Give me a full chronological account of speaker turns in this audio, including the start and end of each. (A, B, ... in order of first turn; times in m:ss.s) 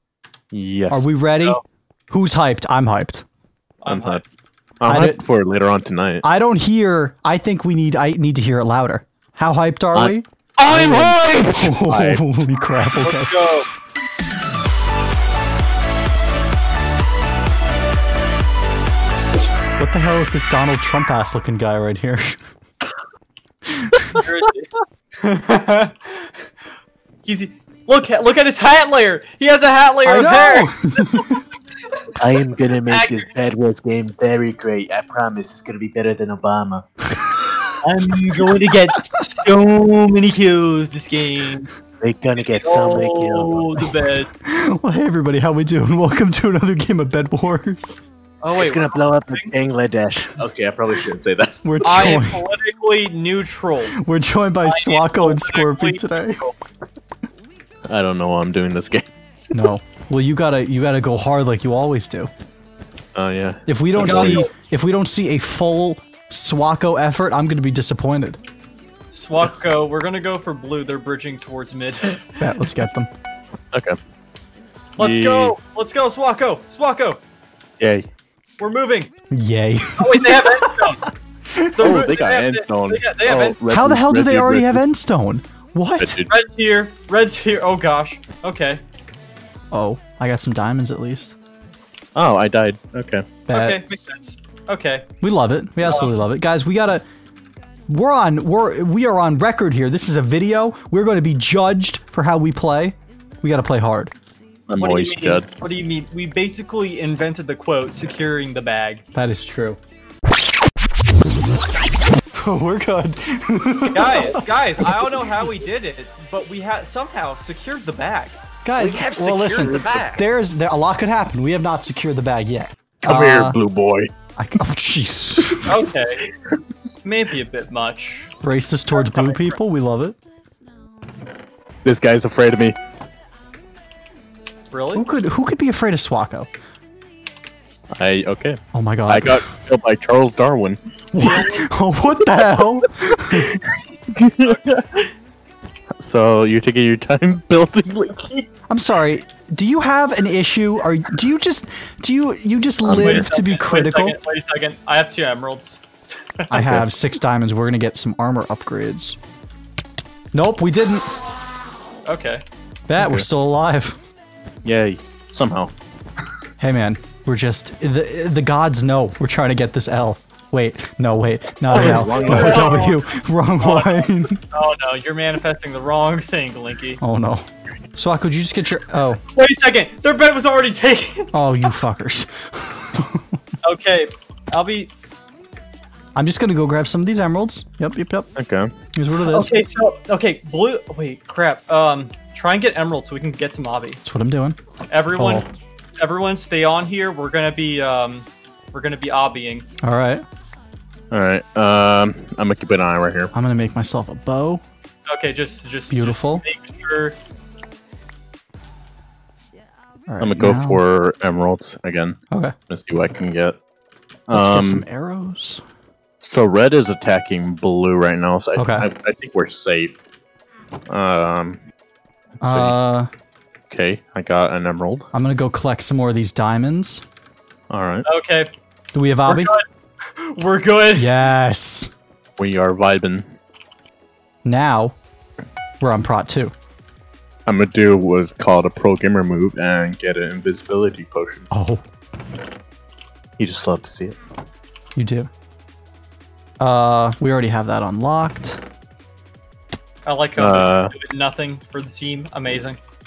0:00.5-0:01.1 A
0:00.9-0:01.6 B
0:02.1-0:03.2 B
0:03.8-0:04.3 C
0:03.9-0:04.2 A
0:04.8-0:06.2 A
0:04.9-0:05.2 B
0:06.2-0:13.5 B
0:09.9-0:12.2 A
0:13.0-0:13.7 C
0:19.8-0:22.4 B
0:23.7-0:24.1 B
0:24.1-0:26.4 C
0:27.2-0:31.3 C
0:30.0-0:31.4 B
0:32.2-0:36.8 D
0:32.8-0:33.3 A
0:32.8-0:33.3 C
0:37.2-0:37.6 B
0:37.8-0:41.7 C
0:42.0-0:43.6 D
0:42.4-0:43.5 A
0:42.4-0:44.3 C
0:44.4-0:48.0 B
0:48.4-0:49.5 C
0:48.6-0:52.2 A
0:51.6-0:52.4 B
0:51.8-0:53.9 C
0:54.0-0:56.4 B
0:54.6-0:56.5 C
0:57.8-0:59.1 A
0:59.5-1:02.3 B
1:03.1-1:04.5 A
1:03.7-1:08.4 B
1:04.0-1:04.5 C
1:09.1-1:12.7 C
1:12.4-1:13.1 B
1:15.0-1:17.2 C
1:15.0-1:15.5 A
1:17.8-1:18.1 A
1:18.6-1:19.1 C
1:19.3-1:20.9 B
1:20.0-1:21.0 C
1:21.5-1:21.8 B
1:21.8-1:23.6 C
1:21.8-1:24.8 A
1:23.7-1:26.2 B
1:26.0-1:26.3 A
1:26.3-1:28.8 C
1:29.7-1:31.4 B
1:32.1-1:33.3 A
1:33.5-1:33.8 B
1:33.5-1:35.0 C
1:35.2-1:37.0 B
1:37.9-1:44.1 B
1:44.7-1:45.5 A
1:44.8-1:49.0 C
1:49.1-1:49.8 B
1:52.4-1:55.3 B
1:53.9-1:58.4 C
1:58.6-2:03.6 B
1:58.8-2:00.2 A
1:58.9-2:00.0 C
2:03.0-2:04.1 A
2:04.4-2:05.7 B
2:05.7-2:06.2 C
2:07.0-2:08.3 C
2:08.4-2:10.2 B
2:08.9-2:09.6 C
2:11.8-2:12.8 A
2:14.7-2:15.0 C
2:14.9-2:16.5 B
2:17.9-2:20.8 A
2:18.7-2:19.4 B
2:21.1-2:23.6 B
2:21.2-2:21.6 C
2:24.1-2:25.1 A
2:26.0-2:28.5 A
2:28.7-2:34.2 B
2:32.8-2:33.3 A
2:32.9-2:35.9 C
2:36.5-2:39.2 B
2:36.5-2:36.9 A
2:40.3-2:41.1 B
2:42.0-2:42.4 C
2:42.9-2:44.0 B
2:43.0-2:43.3 A
2:44.6-2:45.7 A
2:46.6-2:54.4 B
2:51.7-2:53.0 C
2:51.7-2:52.9 A
2:53.6-2:57.0 C
2:57.0-2:57.4 B
2:58.0-2:59.2 B
2:59.3-3:01.3 C
3:01.3-3:03.3 B
3:03.6-3:04.9 C
3:06.2-3:08.3 B
3:08.4-3:08.7 A
3:08.9-3:09.6 B
3:09.2-3:14.0 C
3:14.0-3:14.6 B
3:14.9-3:19.6 C
3:15.2-3:15.5 B
3:19.8-3:20.2 B
3:21.1-3:23.3 A
3:23.3-3:24.6 B
3:25.1-3:27.2 C
3:25.9-3:26.4 B
3:30.1-3:30.8 B
3:30.2-3:32.2 A
3:32.7-3:33.6 A
3:34.3-3:34.8 A
3:34.3-3:35.6 B
3:36.2-3:40.0 A
3:38.6-3:38.9 B
3:40.9-3:41.6 A
3:42.4-3:42.8 A
3:42.4-3:43.1 B
3:43.7-3:45.1 A
3:45.1-3:47.0 B
3:47.7-3:48.0 A
3:48.0-3:48.5 C
3:48.9-3:49.5 B
3:49.3-3:51.1 C
3:51.0-3:51.9 B
3:52.4-3:53.3 A
3:54.4-3:55.0 B
3:55.8-3:56.5 B
3:57.4-4:01.5 A
4:01.5-4:01.8 B
4:03.4-4:04.2 A
4:05.0-4:05.3 B
4:06.6-4:08.6 B
4:10.0-4:12.8 C
4:10.4-4:10.9 A